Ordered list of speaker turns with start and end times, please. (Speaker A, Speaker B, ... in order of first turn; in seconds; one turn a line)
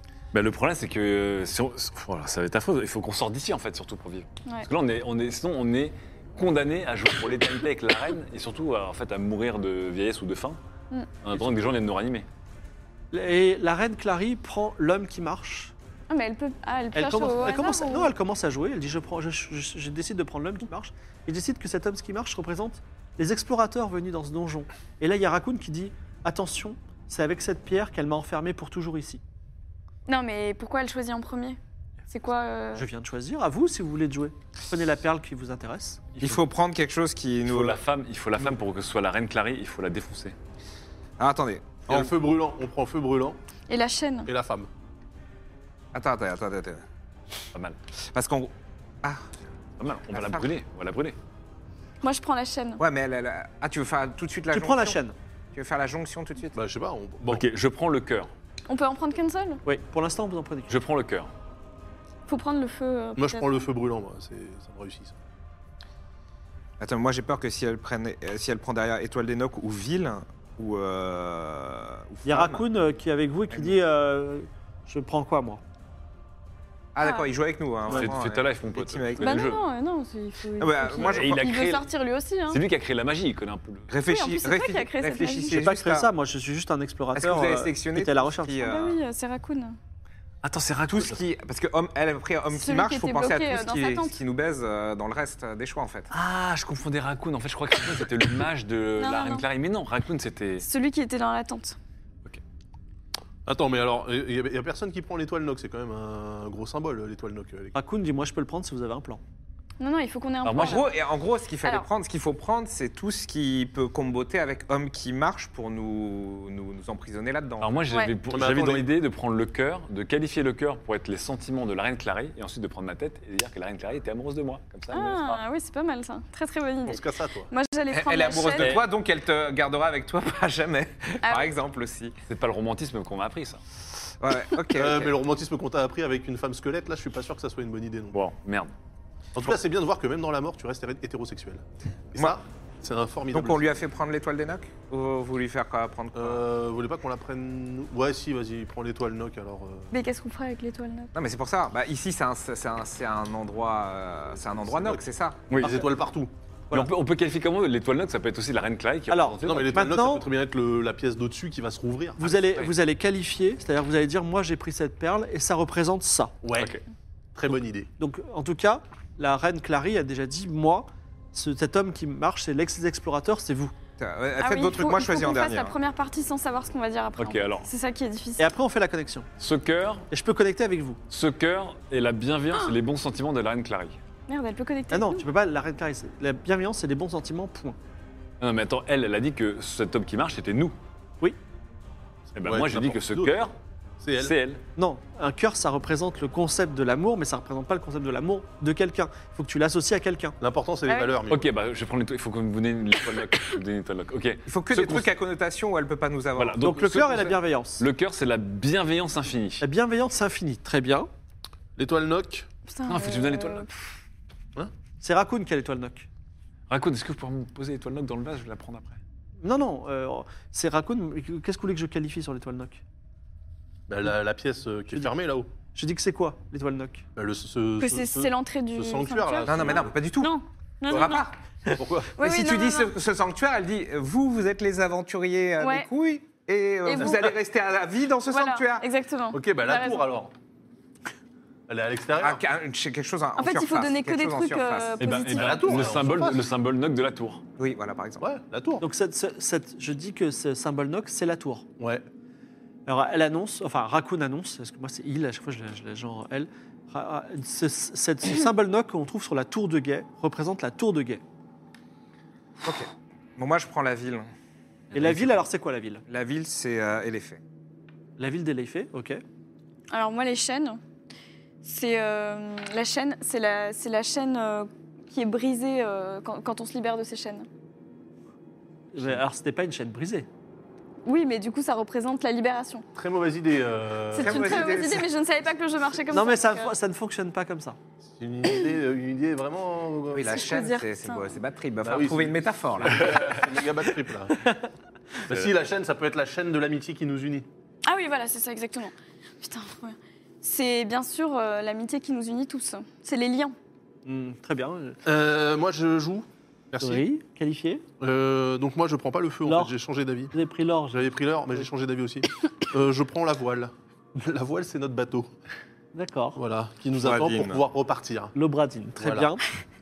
Speaker A: 0.3-10.6
Speaker A: 11.2-12.3
Speaker B: 13.1-15.7
Speaker C: 16.1-18.1
Speaker B: 16.9-29.2
Speaker C: 30.1-31.6
Speaker C: 32.1-32.8
Speaker B: 32.7-36.1
Speaker D: 36.2-37.8
Speaker A: 37.4-40.4
Speaker D: 41.2-42.1
Speaker E: 41.9-43.4
Speaker C: 43.7-44.3
Speaker E: 44.2-44.7
Speaker D: 45.9-46.8
Speaker D: 48.1-48.5
Speaker A: 49.8-51.2
Speaker D: 50.1-50.5
Speaker C: 52.0-52.8
Speaker D: 52.8-55.0
Speaker B: 54.5-55.1
Speaker D: 55.5-56.5
Speaker E: 56.5-57.4
Speaker A: 57.3-58.3
Speaker C: 58.7-59.6
Speaker B: 59.6-60.8
Speaker A: 60.7-61.3
Speaker C: 62.3-63.6
Speaker E: 63.2-65.2
Speaker D: 66.8-72.7
Speaker B: 72.2-75.6
Speaker D: 73.5-73.8
Speaker D: 76.9-79.5
Speaker C: 77.0-77.3
Speaker A: 77.9-79.6
Speaker C: 79.2-82.6
Speaker D: 80.6-81.6
Speaker A: 80.9-81.8
Speaker A: 82.5-83.9
Speaker D: 83.9-86.1
Speaker C: 84.0-85.6
Speaker B: 85.5-88.6
Speaker D: 87.1-89.0
Speaker C: 88.6-89.8
Speaker A: 90.4-91.2
Speaker D: 90.9-96.1
Speaker C: 92.5-94.2
Speaker A: 96.1-100.6
Speaker C: 99.0-99.4
Speaker C: 100.6-101.8
Speaker E: 103.5-107.7
Speaker B: 107.7-109.2
Speaker C: 109.8-110.9
Speaker A: 110.4-110.8
Speaker D: 110.5-117.8
Speaker C: 111.6-111.9
Speaker A: 117.6-125.4
Speaker E: 118.3-118.9
Speaker C: 124.9-128.8
Speaker E: 126.8-127.5
Speaker D: 127.9-132.2
Speaker A: 128.6-128.8
Speaker C: 131.2-131.5
Speaker A: 132.3-133.6
Speaker D: 134.2-135.1
Speaker E: 134.7-138.2
Speaker A: 138.1-138.7
Speaker E: 139.3-143.8
Speaker D: 143.3-146.4
Speaker E: 146.1-149.9
Speaker C: 149.9-151.1
Speaker D: 151.1-155.5
Speaker E: 154.5-156.3
Speaker A: 155.5-155.8
Speaker A: 156.7-159.8
Speaker B: 159.1-160.2
Speaker E: 159.4-162.2
Speaker B: 162.2-166.3
Speaker A: 162.2-162.7
Speaker E: 166.4-166.8
Speaker A: 166.6-166.8
Speaker E: 167.3-167.9
Speaker B: 168.0-173.7
Speaker D: 174.0-175.7
Speaker C: 174.4-178.5
Speaker A: 177.2-177.7
Speaker B: 178.4-179.3
Speaker A: 179.4-180.1
Speaker B: 180.1-181.0
Speaker A: 181.1-184.0
Speaker C: 184.3-185.2
Speaker B: 184.9-187.8
Speaker A: 188.4-190.8
Speaker A: 192.3-193.5
Speaker E: 192.4-193.3
Speaker E: 194.0-194.3
Speaker A: 194.2-194.6
Speaker B: 194.8-200.4
Speaker E: 200.4-201.5
Speaker C: 200.9-201.2
Speaker A: 201.3-205.1
Speaker D: 204.4-206.7
Speaker A: 206.3-209.6
Speaker B: 206.6-207.9
Speaker B: 209.6-211.1
Speaker E: 211.8-212.5
Speaker C: 212.7-213.9
Speaker A: 212.9-213.7
Speaker B: 215.0-216.1
Speaker A: 216.7-219.0
Speaker B: 219.4-222.8
Speaker E: 223.9-225.5
Speaker B: 225.7-227.0
Speaker E: 227.2-229.9
Speaker C: 227.8-231.2
Speaker D: 229.5-230.3
Speaker D: 230.9-231.3
Speaker E: 231.8-232.1
Speaker C: 232.2-232.9
Speaker D: 232.2-238.8
Speaker C: 235.6-235.9
Speaker C: 236.8-237.3
Speaker C: 238.3-240.1
Speaker E: 239.3-240.3
Speaker E: 241.7-242.4
Speaker D: 242.2-245.1
Speaker C: 243.3-245.9
Speaker A: 245.0-247.4
Speaker E: 245.3-246.5
Speaker D: 247.6-248.2
Speaker E: 248.2-248.8
Speaker B: 248.8-251.6
Speaker E: 251.8-252.0
Speaker B: 252.9-261.2
Speaker D: 262.6-264.3
Speaker A: 264.9-265.4
Speaker B: 264.9-266.0
Speaker D: 266.1-267.4
Speaker B: 268.2-269.2
Speaker C: 269.9-270.8
Speaker C: 271.6-277.5
Speaker B: 278.9-280.3
Speaker C: 281.0-282.8
Speaker E: 282.9-284.8
Speaker C: 284.1-286.7
Speaker D: 284.2-285.1
Speaker B: 286.1-287.8
Speaker E: 288.1-290.4
Speaker D: 290.1-293.1
Speaker C: 290.3-291.4
Speaker E: 291.8-294.4
Speaker E: 295.2-297.5
Speaker C: 297.8-303.6
Speaker B: 304.1-305.0
Speaker E: 305.0-307.0
Speaker B: 306.8-307.8
Speaker E: 308.0-310.3
Speaker B: 309.4-309.7
Speaker B: 310.3-311.1
Speaker E: 310.9-315.3
Speaker B: 315.9-316.4
Speaker E: 316.4-318.3
Speaker D: 317.0-317.6
Speaker B: 318.3-319.4
Speaker E: 319.0-319.3